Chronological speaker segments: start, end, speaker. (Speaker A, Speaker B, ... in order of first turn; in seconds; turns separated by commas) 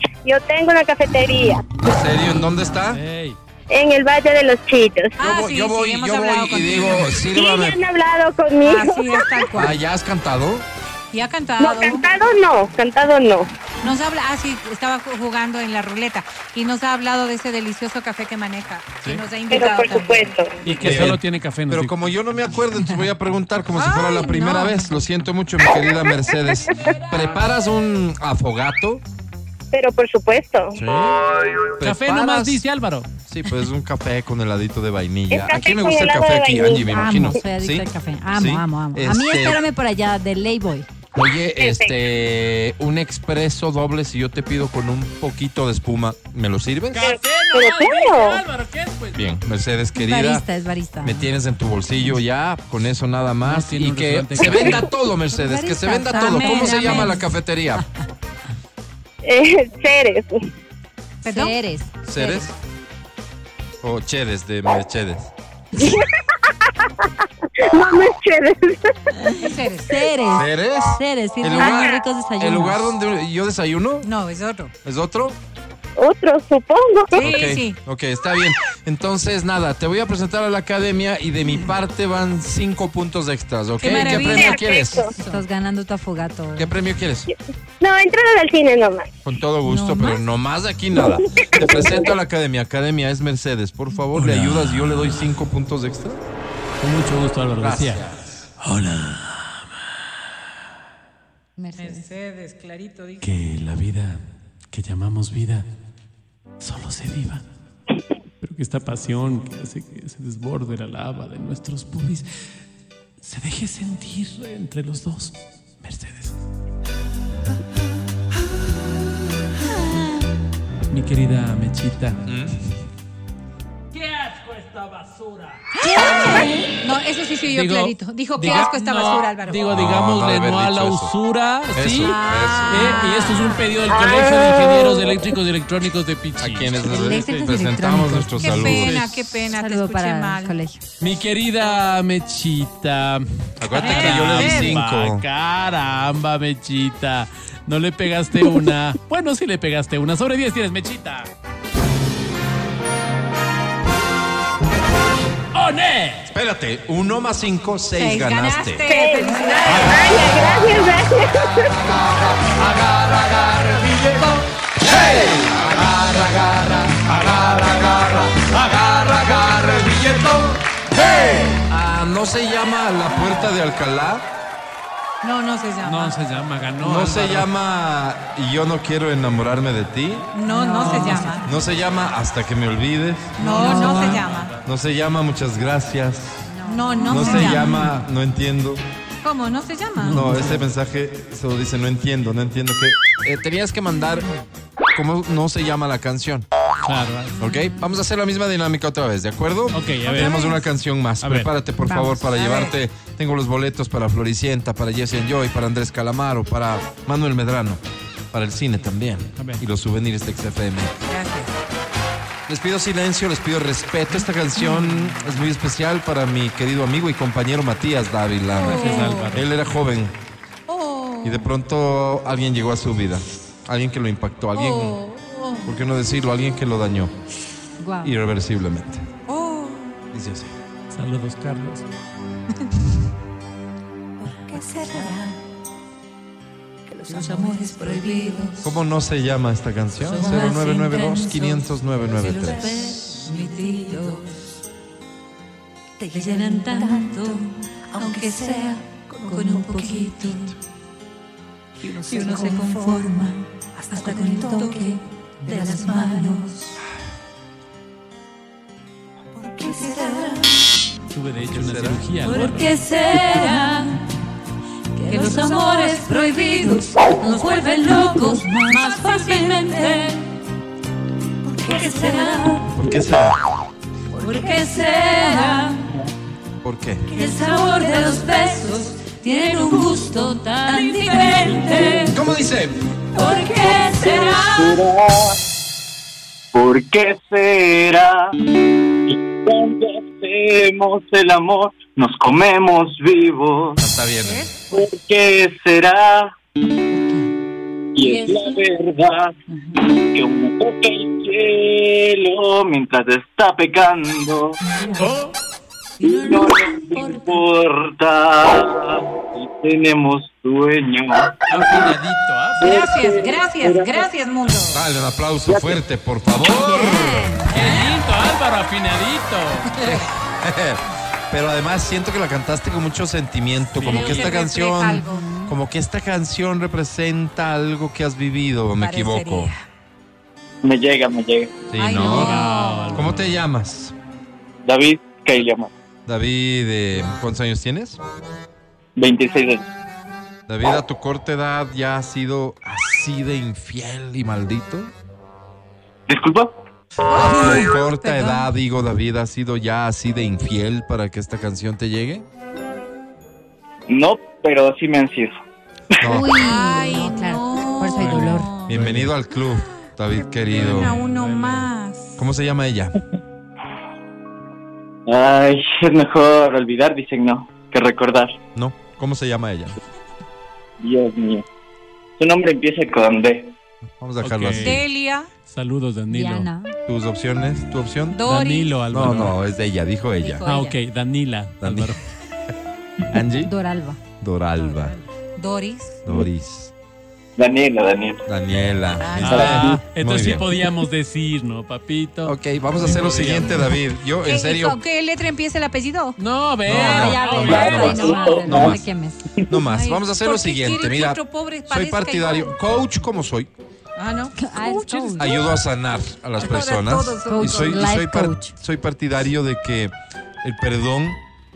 Speaker A: 0.2-1.8, Speaker B: 1.8-3.0, Speaker C: 2.9-3.4, Speaker A: 3.7-5.2, Speaker D: 5.2-7.2, Speaker B: 5.2-7.8, Speaker A: 7.0-9.4, Speaker D: 8.6-9.8, Speaker B: 9.6-10.7, Speaker D: 11.1-12.1, Speaker A: 11.6-13.5, Speaker D: 13.8-20.3, Speaker A: 19.5-20.6, Speaker C: 20.6-22.0, Speaker B: 20.8-29.0, Speaker D: 23.7-24.9, Speaker A: 29.7-30.8, Speaker B: 30.8-31.2, Speaker B: 31.8-32.6, Speaker C: 31.8-33.1, Speaker B: 33.3-39.6, Speaker A: 35.3-37.4, Speaker E: 36.9-40.9, Speaker B: 41.2-47.1, Speaker A: 41.6-42.0, Speaker C: 46.9-49.2, Speaker A: 47.0-48.4, Speaker B: 49.1-50.5, Speaker E: 50.0-51.3, Speaker B: 51.0-57.8, Speaker C: 53.4-54.9, Speaker E: 55.3-57.3, Speaker D: 56.1-57.2, Speaker A: 59.2-60.4, Speaker D: 61.2-61.6, Speaker E: 61.3-62.5, Speaker B: 62.1-62.5, Speaker B: 63.8-65.3, Speaker A: 65.8-66.1, Speaker A: 66.7-67.1, Speaker A: 67.6-69.4, Speaker E: 69.3-72.9, Speaker D: 69.4-70.0, Speaker B: 70.3-74.1, Speaker A: 71.5-72.0, Speaker D: 74.0-74.7, Speaker B: 74.8-75.4, Speaker A: 76.0-77.2, Speaker D: 77.1-77.8, Speaker B: 77.2-85.1, Speaker D: 83.8-85.5, Speaker A: 84.1-85.1, Speaker E: 85.2-86.7, Speaker B: 86.6-87.3, Speaker A: 87.8-89.1, Speaker B: 89.2-96.2, Speaker E: 89.7-90.2, Speaker A: 91.0-92.1, Speaker C: 94.1-95.3, Speaker C: 96.8-98.0, Speaker B: 97.6-98.5, Speaker C: 98.6-99.7, Speaker E: 101.6-102.1, Speaker D: 101.8-103.3, Speaker C: 103.2-105.7, Speaker C: 106.6-107.5, Speaker C: 108.4-112.3, Speaker C: 113.2-116.4, Speaker C: 120.9-122.2, Speaker B: 122.3-122.6, Speaker C: 123.9-125.6, Speaker D: 125.8-129.7, Speaker E: 126.2-126.7, Speaker C: 127.5-137.6, Speaker B: 129.7-131.1, Speaker B: 131.7-133.2, Speaker D: 132.0-133.7, Speaker A: 133.9-135.1, Speaker B: 136.4-139.0, Speaker E: 136.8-138.5, Speaker D: 138.4-140.6, Speaker C: 138.5-139.3, Speaker E: 139.5-140.8, Speaker C: 141.0-151.3, Speaker B: 143.6-145.2, Speaker D: 143.8-144.8, Speaker C: 155.5-156.2, Speaker B: 156.3-158.9, Speaker D: 158.0-160.2, Speaker A: 158.9-161.7, Speaker C: 162.4-164.3, Speaker B: 164.9-166.7, Speaker C: 165.7-170.6, Speaker C: 171.1-171.5, Speaker B: 171.7-174.2, Speaker D: 175.2-176.2, Speaker C: 175.8-177.5, Speaker B: 176.8-180.3, Speaker D: 180.3-181.5, Speaker E: 180.5-181.3, Speaker C: 180.5-181.4, Speaker B: 181.4-186.5, Speaker C: 183.4-184.6, Speaker D: 183.4-184.5, Speaker E: 183.6-184.1, Speaker E: 186.4-187.9, Speaker D: 186.7-187.7, Speaker B: 187.1-188.8, Speaker D: 189.2-190.3, Speaker C: 190.0-190.7, Speaker B: 190.1-194.3, Speaker B: 194.9-196.5, Speaker C: 196.8-197.5, Speaker B: 197.4-207.8, Speaker C: 199.7-200.4, Speaker E: 200.2-200.5, Speaker C: 201.2-201.5, Speaker E: 201.8-202.2, Speaker D: 202.3-202.8, Speaker B: 208.3-210.9, Speaker C: 209.4-209.6, Speaker D: 211.1-211.6, Speaker B: 212.5-220.1, Speaker C: 214.2-215.4, Speaker D: 218.5-219.4, Speaker C: 218.6-219.5, Speaker D: 220.7-221.5, Speaker B: 221.2-225.0, Speaker D: 224.6-225.7, Speaker B: 225.7-227.1, Speaker E: 227.8-228.2, Speaker B: 228.0-229.1, Speaker D: 229.3-230.0, Speaker B: 230.1-230.5, Speaker C: 230.9-231.9, Speaker E: 234.5-235.2, Speaker F: 237.2-238.6, Speaker B: 238.6-242.8, Speaker F: 240.1-244.2, Speaker E: 243.1-243.3, Speaker E: 246.1-247.3, Speaker D: 246.1-246.8, Speaker F: 246.2-247.6, Speaker D: 248.0-250.3, Speaker F: 248.1-250.5, Speaker E: 248.5-249.7, Speaker E: 252.0-252.4, Speaker D: 252.1-253.0, Speaker F: 252.1-253.5, Speaker D: 253.8-254.7, Speaker E: 253.9-254.9, Speaker F: 254.1-255.0, Speaker E: 255.4-256.8, Speaker D: 255.5-256.1, Speaker F: 255.7-256.4, Speaker D: 259.6-260.3, Speaker C: 261.1-262.7, Speaker B: 261.4-262.1, Speaker F: 262.2-264.1, Speaker D: 265.1-270.0, Speaker F: 265.1-270.3, Speaker D: 271.5-272.5, Speaker F: 271.7-272.8, Speaker B: 272.7-273.4, Speaker F: 274.2-275.9, Speaker B: 276.6-277.1, Speaker F: 277.2-282.2, Speaker D: 280.7-282.1, Speaker C: 280.7-281.7, Speaker B: 282.1-282.8, Speaker F: 283.1-284.8, Speaker G: 283.2-285.4, Speaker G: 286.5-288.3, Speaker G: 289.1-293.8, Speaker B: 293.8-294.5, Speaker D: 294.2-294.8, Speaker G: 294.7-296.4, Speaker G: 297.9-304.6, Speaker D: 298.1-298.4, Speaker C: 305.0-305.3, Speaker E: 306.0-307.4, Speaker G: 306.0-311.9, Speaker C: 311.5-312.8, Speaker G: 312.6-314.1, Speaker D: 312.6-314.8, Speaker B: 314.7-317.3, Speaker G: 315.5-315.8, Speaker E: 316.6-317.6, Speaker C: 317.5-319.8, Speaker D: 319.7-320.1, Speaker B: 319.8-329.5, Speaker C: 323.7-324.4, Speaker D: 323.8-325.3, Speaker E: 325.0-325.6, Speaker D: 328.8-329.6, Speaker G: 330.6-331.6, Speaker B: 331.7-333.9, Speaker D: 331.8-333.1, Speaker C: 332.1-333.4, Speaker G: 334.6-335.7, Speaker B: 336.1-338.0, Speaker G: 339.0-339.6, Speaker B: 340.5-344.9, Speaker G: 346.1-346.5, Speaker D: 347.1-348.5, Speaker B: 347.1-352.2, Speaker G: 353.9-355.4, Speaker B: 356.0-356.4, Speaker E: 356.0-358.5, Speaker D: 356.4-358.9, Speaker C: 357.9-359.1, Speaker B: 358.7-361.0, Speaker C: 360.5-361.7, Speaker D: 360.5-362.2, Speaker B: 362.2-362.9, Speaker G: 365.1-368.4, Speaker B: 368.5-369.8, Speaker G: 370.8-371.4, Speaker G: 372.2-373.5, Speaker B: 374.0-374.9, Speaker C: 374.2-374.8, Speaker D: 374.6-375.3, Speaker C: 375.4-376.5, Speaker E: 376.1-376.8, Speaker B: 376.9-378.3, Speaker D: 378.1-378.8, Speaker C: 378.3-379.4, Speaker B: 378.9-380.5, Speaker E: 380.2-380.7, Speaker C: 380.4-382.0, Speaker B: 381.6-382.0, Speaker B: 383.1-383.5, Speaker E: 383.4-384.0, Speaker B: 384.2-385.0, Speaker D: 384.6-386.0, Speaker B: 386.1-386.7, Speaker G: 387.4-388.3, Speaker B: 388.3-390.5, Speaker C: 389.2-393.7, Speaker G: 389.3-389.8, Speaker B: 392.2-394.8, Speaker D: 394.2-396.2, Speaker C: 396.2-398.0, Speaker B: 396.7-398.9, Speaker E: 396.7-399.2, Speaker G: 397.3-399.4, Speaker B: 399.5-403.5, Speaker D: 399.7-402.6, Speaker D: 404.0-405.3, Speaker E: 404.4-405.4, Speaker B: 405.1-411.2, Speaker D: 406.4-407.8, Speaker E: 407.3-408.5